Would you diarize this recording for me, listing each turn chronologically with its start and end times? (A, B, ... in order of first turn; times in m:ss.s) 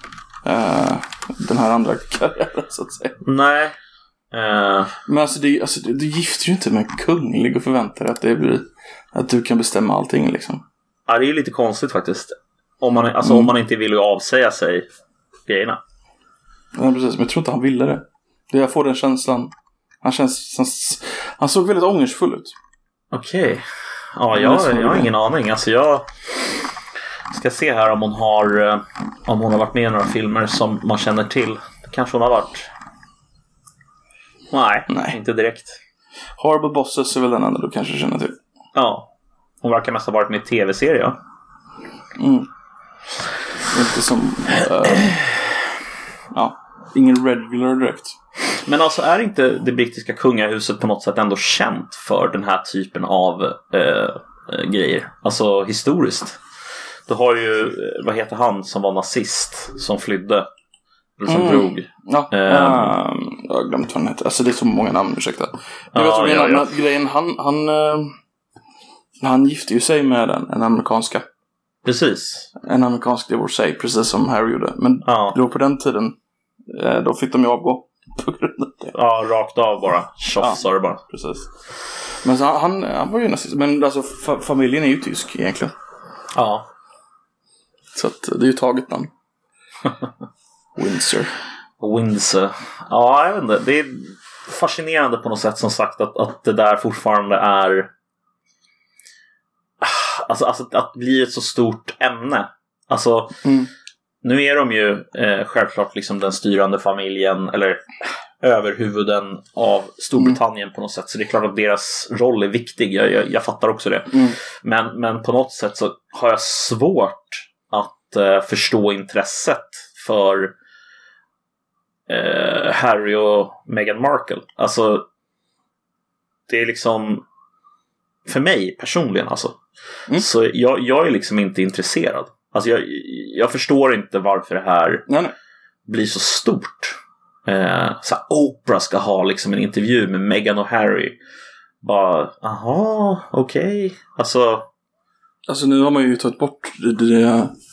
0:00.4-0:03.2 A
0:03.2-0:03.7 B
0:04.3-0:04.9 B
0:05.0-0:10.6 A
0:11.1-0:14.9 B
0:13.2-0:13.5 A
0:15.5-0:15.8 B
0:16.7-0:22.5 A
0:23.1-0:26.1 B
0:24.3-0:25.1 A
0:27.3-0:32.7 B
0:34.5-0:35.8 B
0:34.9-0:35.2 A
0:36.4-0:38.4 A
0:38.7-0:39.1 B
0:39.6-0:41.2 B
0:42.2-0:42.5 A
0:43.7-0:45.6 A
0:46.3-0:48.2 A
0:48.6-0:56.4 B
0:57.1-1:00.4 B
1:01.2-1:02.9 B
1:01.3-1:08.1 A
1:05.9-1:06.7 B
1:09.2-1:11.2 A
1:11.8-1:12.5 B
1:12.6-1:18.9 A
1:15.0-1:15.4 B
1:18.9-1:21.0 B
1:20.4-1:21.5 A
1:22.2-1:25.7 A
1:26.3-1:26.6 B
1:27.9-1:29.1 A
1:30.8-1:31.3 A
1:31.8-1:37.9 B
1:39.8-1:43.4 B
1:43.4-1:43.7 A
1:44.2-1:47.8 B
1:48.4-2:00.5 B
1:54.1-1:54.4 A
2:02.1-2:05.0 B
2:06.5-2:07.2 B
2:08.2-2:09.6 B
2:10.1-2:15.1 B
2:15.1-2:15.3 A
2:15.9-2:21.2 B
2:21.8-2:24.7 B
2:25.5-2:27.5 A